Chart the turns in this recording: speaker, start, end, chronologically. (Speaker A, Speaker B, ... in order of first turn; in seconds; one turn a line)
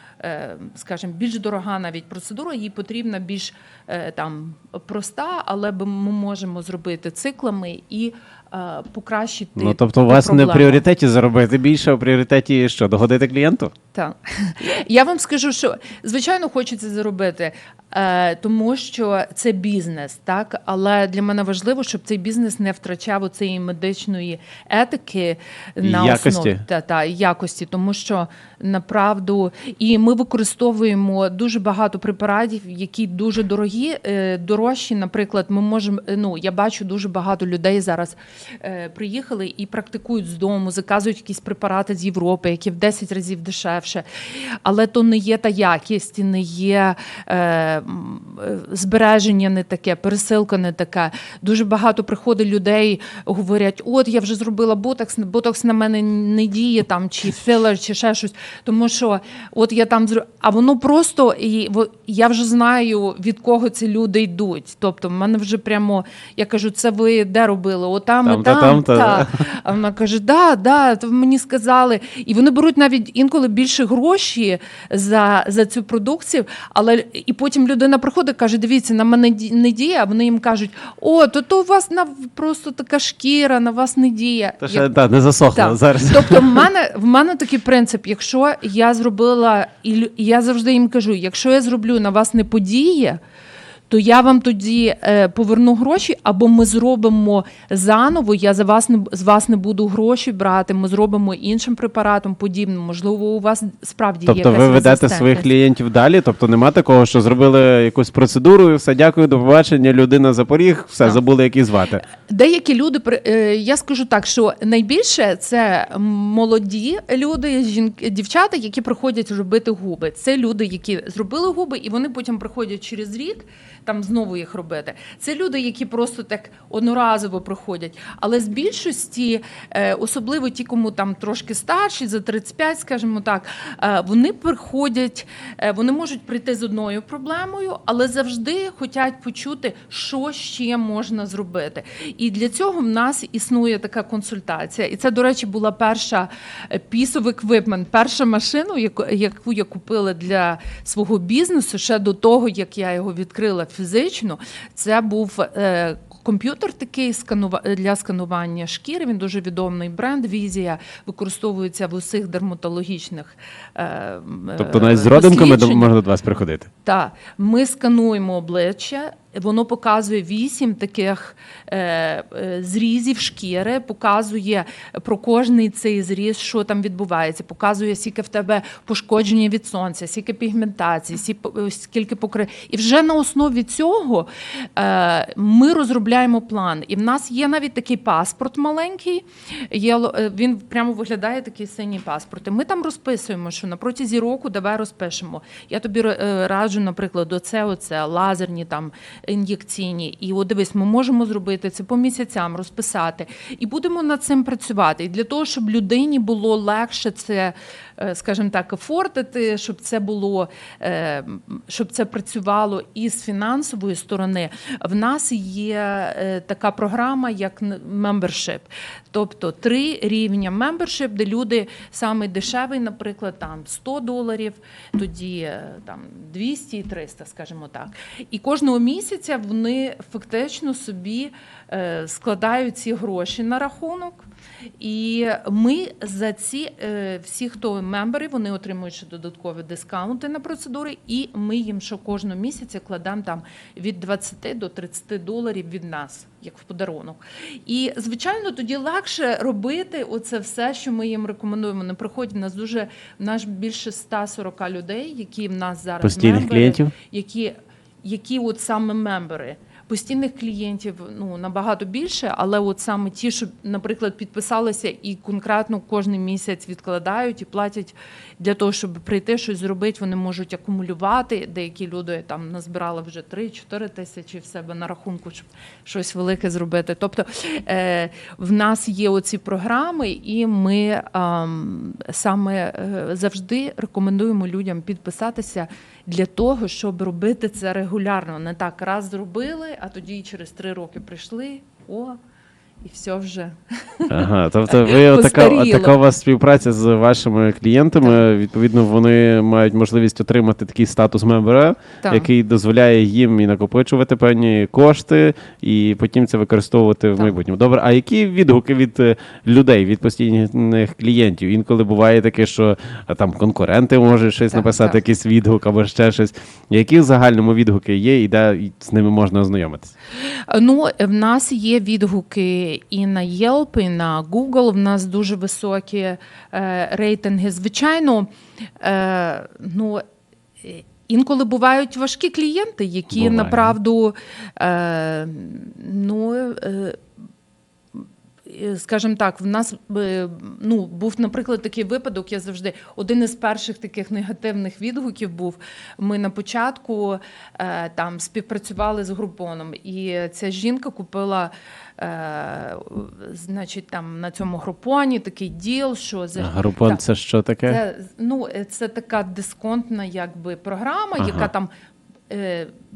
Speaker A: 0.2-10.8
Speaker B: 9.6-13.7
Speaker A: 13.9-84.9
Speaker B: 25.8-26.6
Speaker B: 68.2-69.4
Speaker B: 84.6-86.6
Speaker A: 85.5-93.2
Speaker A: 93.9-105.5
Speaker B: 104.2-112.0
Speaker A: 112.1-165.9
Speaker B: 164.6-166.7
Speaker A: 166.8-234.2
Speaker A: 234.8-292.2
Speaker B: 256.0-256.9
Speaker A: 292.8-295.9
Speaker B: 294.1-319.9
Speaker A: 302.0-302.3
Speaker A: 314.5-315.0
Speaker A: 320.1-330.0
Speaker A: 330.6-337.0
Speaker B: 333.1-333.8
Speaker A: 338.0-357.0
Speaker B: 356.4-357.8
Speaker A: 357.6-361.7
Speaker B: 361.2-361.5
Speaker A: 362.3-362.7